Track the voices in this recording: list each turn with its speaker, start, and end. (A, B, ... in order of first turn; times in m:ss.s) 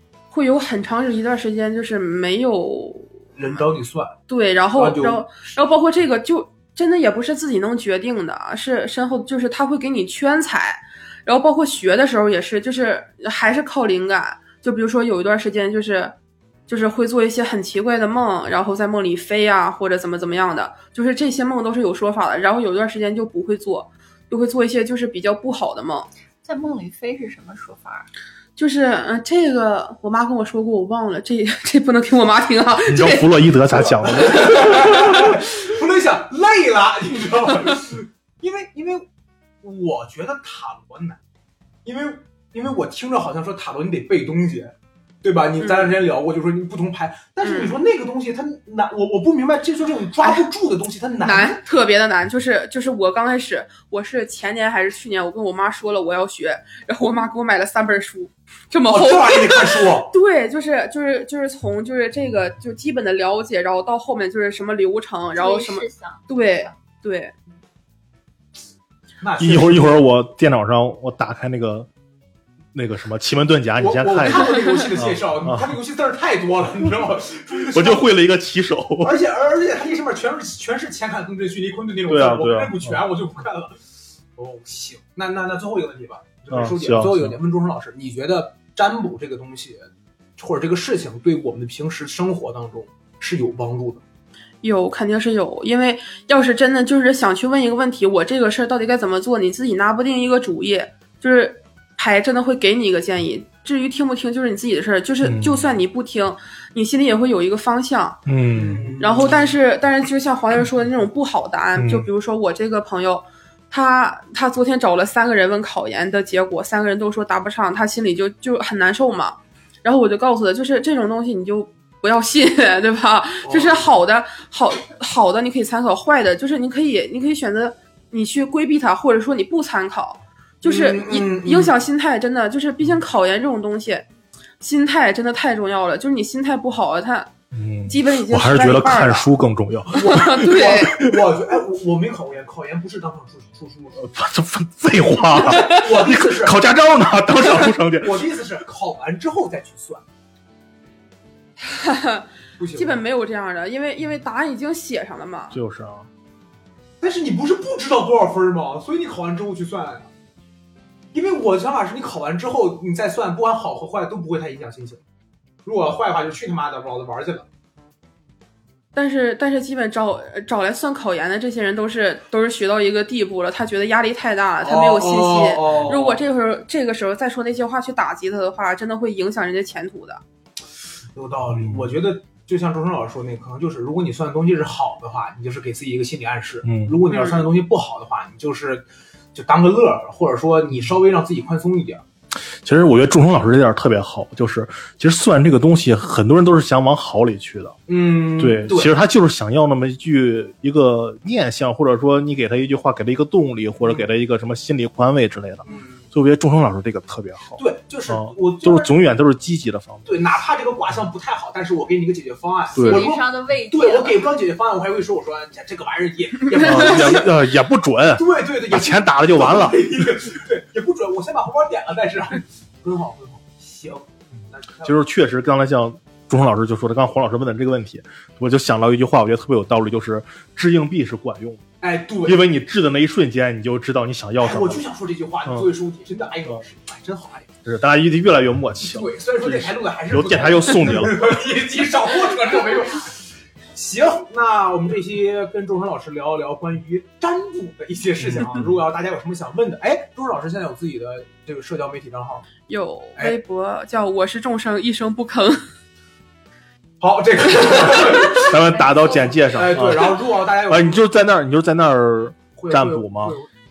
0:00.3-0:03.6 A
0:03.4-0:04.1 B
0:04.3-0:16.1 A
0:04.7-0:05.2 B
0:16.7-0:26.1 A
0:26.4-0:28.1 C
0:28.6-0:33.3 A
0:32.9-0:35.4 D
0:33.8-0:39.1 B
0:39.6-0:41.2 B
0:41.8-0:51.6 B
0:45.6-0:46.0 A
0:47.4-0:47.8 A
0:50.2-0:50.5 A
0:51.2-1:07.3 A
0:58.9-1:00.1 B
1:05.3-1:06.7 C
1:09.2-1:10.0 B
1:09.4-1:11.9 D
1:12.7-1:15.8 D
1:13.8-1:18.1 B
1:17.7-1:19.2 D
1:19.0-1:23.8 B
1:22.1-1:23.0 D
1:24.4-1:34.0 B
1:26.5-1:27.4 D
1:34.6-1:48.2 A
1:45.2-1:45.7 D
1:48.2-1:48.9 D
1:48.5-1:49.4 B
1:49.0-2:14.1 A
1:51.8-1:52.1 D
2:03.4-2:03.9 B
2:10.6-2:11.7 B
2:14.6-2:17.3 A
2:17.5-2:21.2 D
2:17.9-2:19.3 A
2:19.9-2:24.0 B
2:20.0-2:21.0 A
2:24.0-2:28.3 D
2:25.3-2:26.6 B
2:25.5-2:25.8 A
2:28.0-2:30.0 B
2:31.6-2:35.5 A
2:32.6-2:33.0 B
2:35.5-2:36.1 D
2:37.0-2:40.1 B
2:41.1-2:45.0 B
2:45.6-2:47.4 B
2:48.9-3:00.2 A
2:54.6-2:56.2 B
3:01.1-3:12.0 B
3:01.5-3:01.9 D
3:06.6-3:07.0 D
3:07.1-3:07.5 A
3:12.6-3:17.8 D
3:17.9-3:18.9 B
3:18.4-3:30.2 D
3:25.6-3:26.1 B
3:27.6-3:29.0 B
3:30.0-3:37.5 B
3:32.7-3:33.1 D
3:32.8-3:34.3 C
3:36.6-3:39.8 D
3:36.6-3:37.2 A
3:38.1-3:45.0 B
3:44.8-3:51.6 D
3:51.8-3:52.4 B
3:52.2-3:54.8 D
3:54.4-3:57.5 B
3:57.6-4:01.2 D
3:58.8-4:03.2 B
4:03.7-4:12.5 B
4:12.7-4:15.6 A
4:17.0-4:18.6 B
4:18.3-4:23.4 D
4:19.4-4:21.0 B
4:22.6-4:23.5 B